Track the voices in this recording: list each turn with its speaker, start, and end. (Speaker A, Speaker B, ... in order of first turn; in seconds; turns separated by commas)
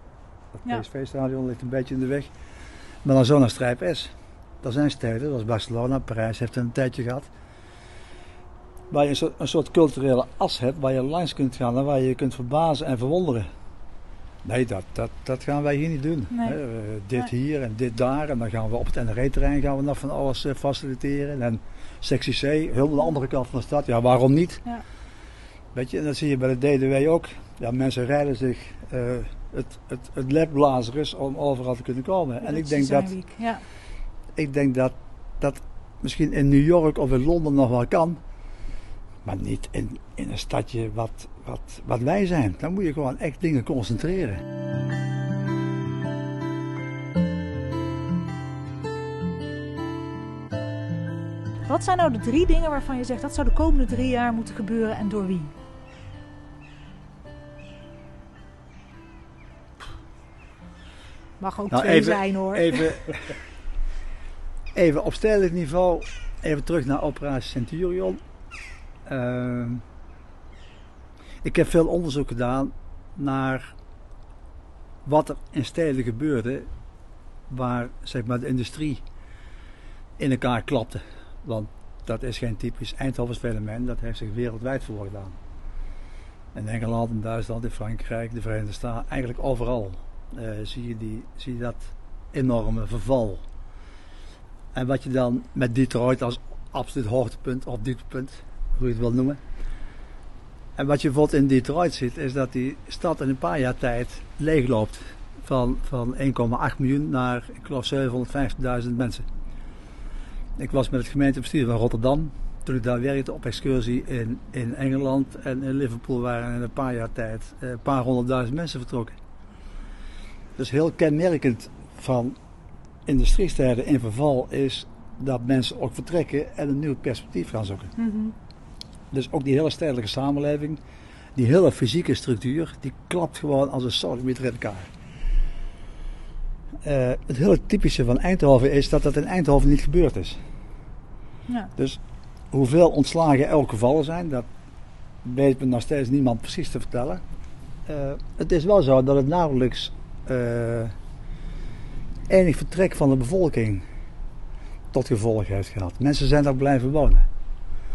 Speaker A: 0.5-2.3, Speaker A: 3.0-7.3, Speaker A: 8.9-13.5, Speaker A: 14.4-24.6, Speaker B: 16.3-16.6, Speaker A: 25.7-33.1, Speaker B: 32.4-33.6, Speaker A: 34.3-38.2, Speaker A: 39.2-44.4, Speaker B: 51.7-55.5, Speaker B: 61.4-63.0, Speaker A: 61.7-63.3, Speaker A: 64.7-68.2, Speaker A: 69.0-69.8, Speaker A: 71.4-73.7, Speaker A: 75.0-76.7, Speaker A: 77.5-79.0, Speaker A: 80.2-85.4, Speaker A: 86.5-93.4, Speaker A: 94.7-99.4, Speaker A: 100.8-109.2, Speaker A: 110.6-119.2, Speaker A: 120.6-122.3, Speaker A: 123.0-127.9, Speaker B: 128.0-128.3, Speaker A: 129.1-130.8, Speaker A: 131.3-134.9, Speaker A: 136.8-140.4, Speaker A: 142.5-144.5, Speaker A: 145.2-147.2, Speaker A: 147.8-150.9, Speaker A: 152.3-153.8, Speaker A: 154.9-157.2